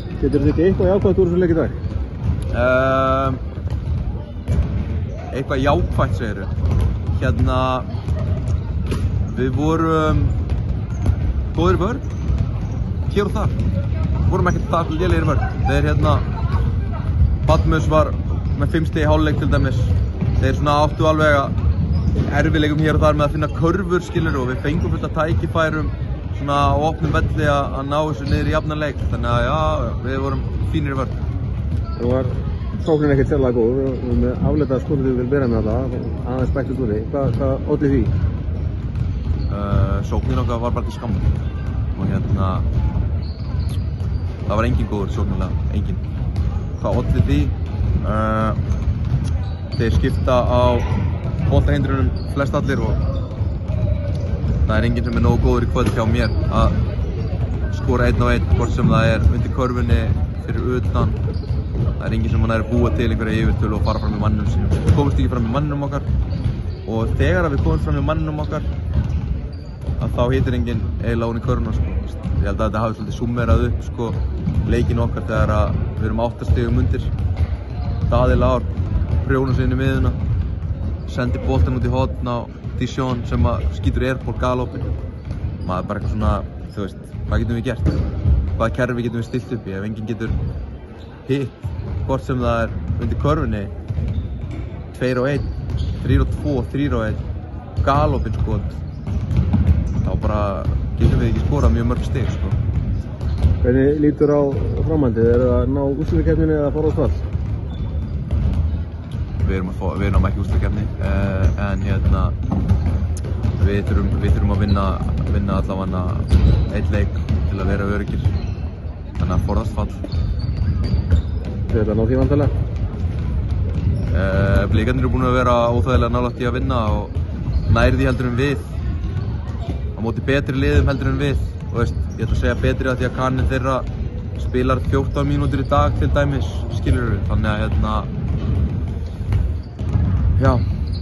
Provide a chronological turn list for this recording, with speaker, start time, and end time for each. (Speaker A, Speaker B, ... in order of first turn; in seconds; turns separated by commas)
Speaker A: 0.2-1.7, Speaker B: 2.5-3.4, Speaker B: 5.3-6.5, Speaker B: 7.1-7.9, Speaker B: 9.2-10.3, Speaker B: 11.5-12.1, Speaker B: 13.1-13.6, Speaker B: 14.3-16.2, Speaker B: 17.4-21.5, Speaker B: 22.2-31.1, Speaker A: 32.0-38.1, Speaker B: 39.5-41.3, Speaker B: 41.9-42.6, Speaker B: 44.5-46.0, Speaker B: 46.8-48.6, Speaker B: 49.8-50.9, Speaker B: 51.5-53.0, Speaker B: 54.6-56.8, Speaker B: 57.7-61.2, Speaker B: 62.0-66.1, Speaker B: 66.8-68.7, Speaker B: 70.0-77.1, Speaker B: 78.1-80.2, Speaker B: 81.0-84.9, Speaker B: 85.6-88.0, Speaker B: 88.6-90.3, Speaker B: 91.3-93.7, Speaker B: 94.9-95.5, Speaker B: 96.0-97.2, Speaker B: 97.8-98.8, Speaker B: 100.0-102.6, Speaker A: 103.6-107.2, Speaker B: 109.4-112.3, Speaker B: 113.6-118.3, Speaker B: 119.2-120.0, Speaker A: 121.7-122.5, Speaker B: 124.1-127.1, Speaker B: 127.7-128.7, Speaker B: 129.9-138.1, Speaker B: 140.4-140.6